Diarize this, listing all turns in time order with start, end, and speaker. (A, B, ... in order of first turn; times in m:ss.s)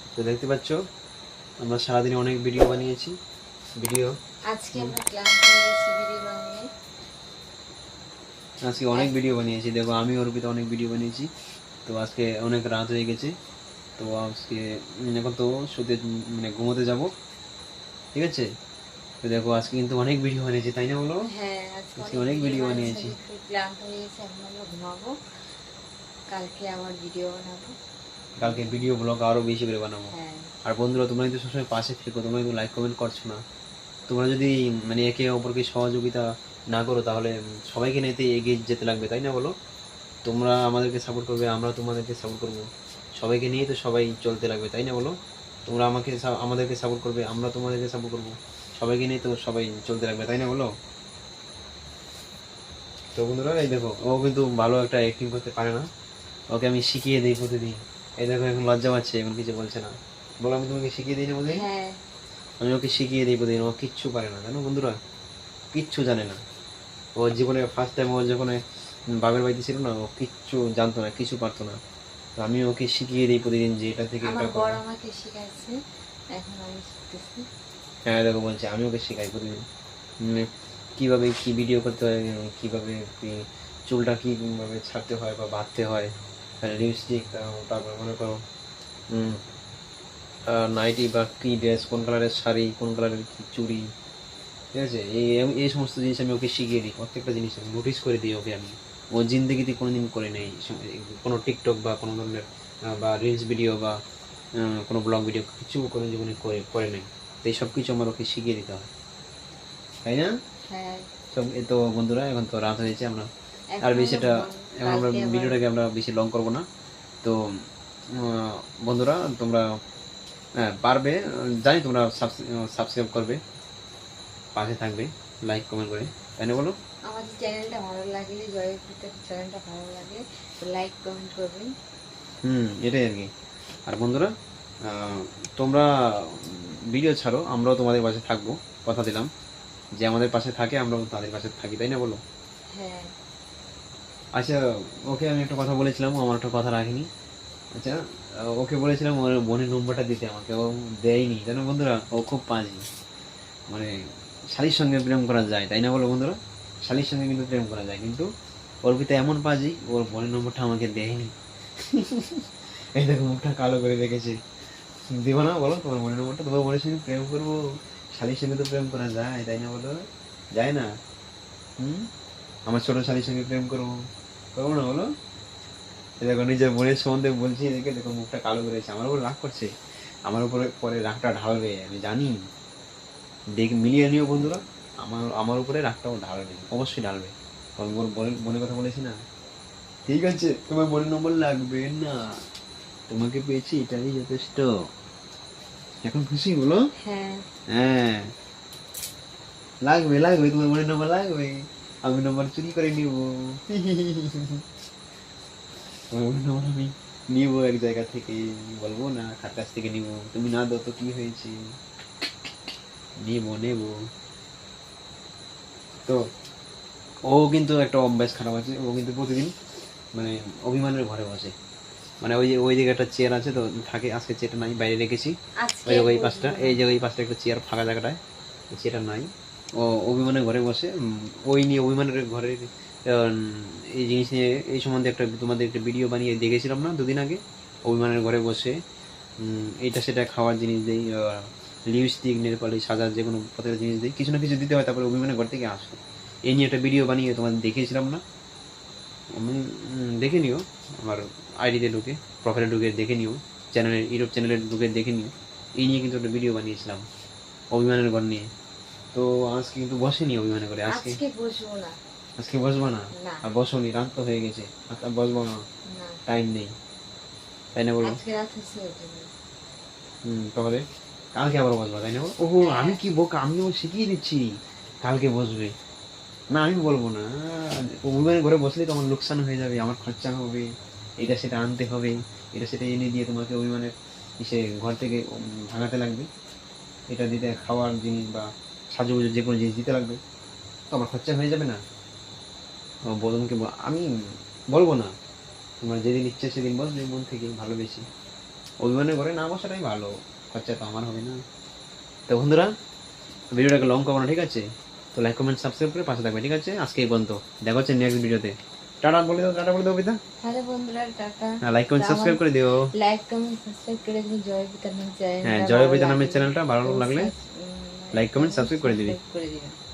0:00.2-0:00.8 A
0:01.6-0:03.1 A
0:03.8-0:04.1 A
0:04.5-0:06.6 B
0:08.6-0:11.3 A
0:11.8-0:13.3 A
0:14.0-0:17.1 A
0:18.1-0:18.4 A
0:19.2-0:21.2 A
0:21.3-0:25.1 B
0:22.0-0:23.1 A
0:26.3-0:27.7 B
0:28.4-0:30.1 A
0:28.4-0:28.7 B
0:30.1-0:30.5 B
0:30.6-0:33.4 A
0:34.1-0:39.5 A
0:40.2-0:42.7 A
0:43.2-0:45.1 A
0:45.7-0:50.7 A
0:53.2-0:55.8 A
0:56.5-1:01.6 A
1:01.5-1:02.0 B
1:02.6-1:05.0 A
1:05.7-1:06.4 A
1:07.2-1:08.6 A
1:09.2-1:11.8 A
1:12.4-1:14.8 A
1:14.2-1:15.8 B
1:16.3-1:17.4 B
1:18.1-1:19.6 A
1:20.2-1:26.1 A
1:26.6-1:28.4 A
1:29.1-1:29.4 A
1:30.5-1:33.8 A
1:34.7-1:44.0 A
1:44.6-1:48.9 A
1:50.0-1:50.3 A
1:50.7-1:51.1 B
1:51.3-1:53.3 A
1:53.7-1:55.6 B
1:53.8-1:56.6 A
1:58.1-1:59.6 A
2:00.6-2:03.4 A
2:04.5-2:06.7 A
2:07.1-2:11.7 B
2:12.4-2:13.3 A
2:13.9-2:14.3 A
2:14.8-2:19.3 A
2:20.0-2:22.2 A
2:22.7-2:23.1 B
2:24.3-2:27.1 A
2:27.7-2:32.8 A
2:34.5-2:38.3 A
2:38.8-2:41.3 A
2:41.9-2:42.4 A
2:42.9-2:44.4 A
2:45.1-2:47.6 A
2:48.1-2:50.0 A
2:50.5-2:50.9 A
2:51.8-2:52.0 A
2:52.7-2:53.9 A
2:54.5-2:55.1 A
2:56.2-2:59.7 A
3:00.2-3:02.4 A
3:03.5-3:09.2 A
3:10.1-3:12.3 A
3:13.1-3:14.7 A
3:16.0-3:16.8 A
3:17.0-3:17.4 B
3:17.7-3:18.3 A
3:19.8-3:24.6 A
3:26.1-3:31.6 A
3:33.2-3:33.9 A
3:37.2-3:39.5 A
3:40.1-3:41.5 A
3:42.2-3:45.3 A
3:45.6-3:46.8 B
3:45.8-3:48.2 A
3:48.7-3:50.9 A
3:51.5-3:58.7 A
3:59.4-4:08.2 A
4:09.3-4:17.0 A
4:17.7-4:18.5 A
4:19.1-4:21.2 A
4:20.9-4:22.0 B
4:22.4-4:25.6 A
4:23.2-4:23.4 B
4:25.9-4:26.2 B
4:26.3-4:26.7 A
4:27.7-4:28.2 A
4:28.0-4:29.3 B
4:30.2-4:34.4 A
4:32.6-4:33.0 B
4:35.0-4:35.7 A
4:36.5-4:40.7 A
4:41.2-4:46.3 A
4:47.1-4:50.2 A
4:50.9-4:51.8 A
4:53.1-4:54.1 A
4:54.7-4:55.1 A
4:55.8-4:58.0 A
4:58.8-5:01.4 A
5:02.3-5:02.7 A
5:03.5-5:10.2 A
5:10.4-5:12.4 B
5:11.6-5:12.9 A
5:12.9-5:19.7 B
5:15.4-5:17.3 A
5:18.1-5:19.2 A